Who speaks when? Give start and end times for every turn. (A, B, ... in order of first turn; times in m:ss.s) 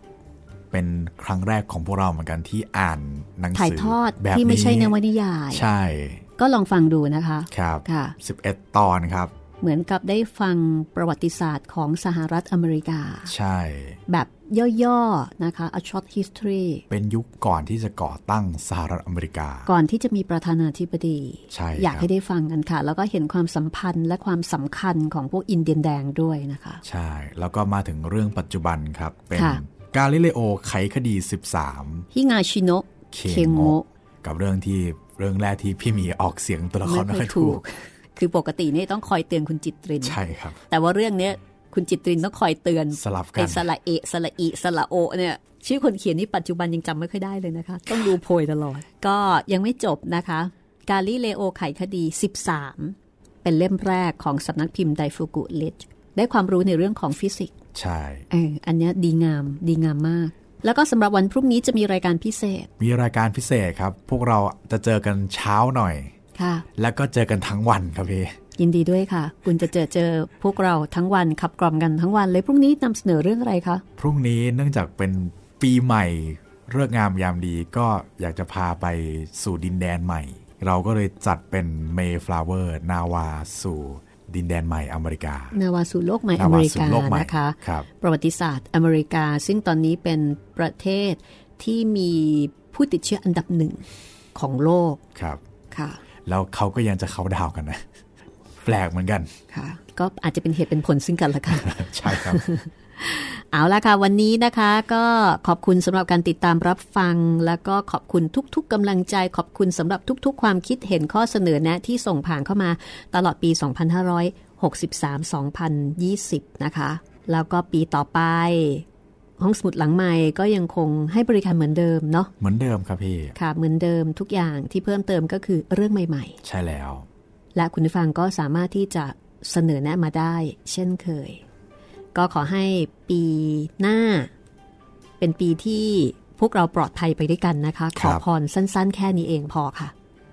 0:00.7-0:04.9 A
0:03.5-0:05.6 B
0:05.5-0:06.2 A
0:06.4-0:08.2 B
0:07.5-0:09.3 A
0:09.6-0:13.3 B
0:13.3-0:14.0 A
0:14.1-0:16.8 B
0:16.9-0:19.7 A
0:19.7-0:26.8 B
0:21.5-0:22.1 A
0:26.8-0:32.1 A
0:29.3-0:29.6 B
0:32.1-0:33.8 B
0:33.1-0:37.6 A
0:36.8-0:40.2 B
0:40.0-0:40.6 A
0:40.7-0:57.5 B
0:42.9-0:43.7 A
0:57.7-0:58.2 A
0:58.3-1:02.7 B
1:02.8-1:06.1 A
1:06.4-1:06.6 B
1:06.7-1:08.4 A
1:08.6-1:13.8 B
1:14.0-1:25.6 A
1:25.5-1:35.0 B
1:26.4-1:27.9 A
1:35.1-1:35.4 A
1:35.7-1:36.0 B
1:36.2-1:37.9 A
1:38.6-1:39.3 A
1:39.5-1:58.8 B
1:41.5-1:42.4 A
1:59.4-2:02.3 B
2:02.4-2:03.4 A
2:03.4-2:06.4 B
2:06.4-2:07.1 A
2:07.5-2:11.4 B
2:12.1-2:14.3 B
2:15.2-2:19.9 B
2:17.9-2:18.2 A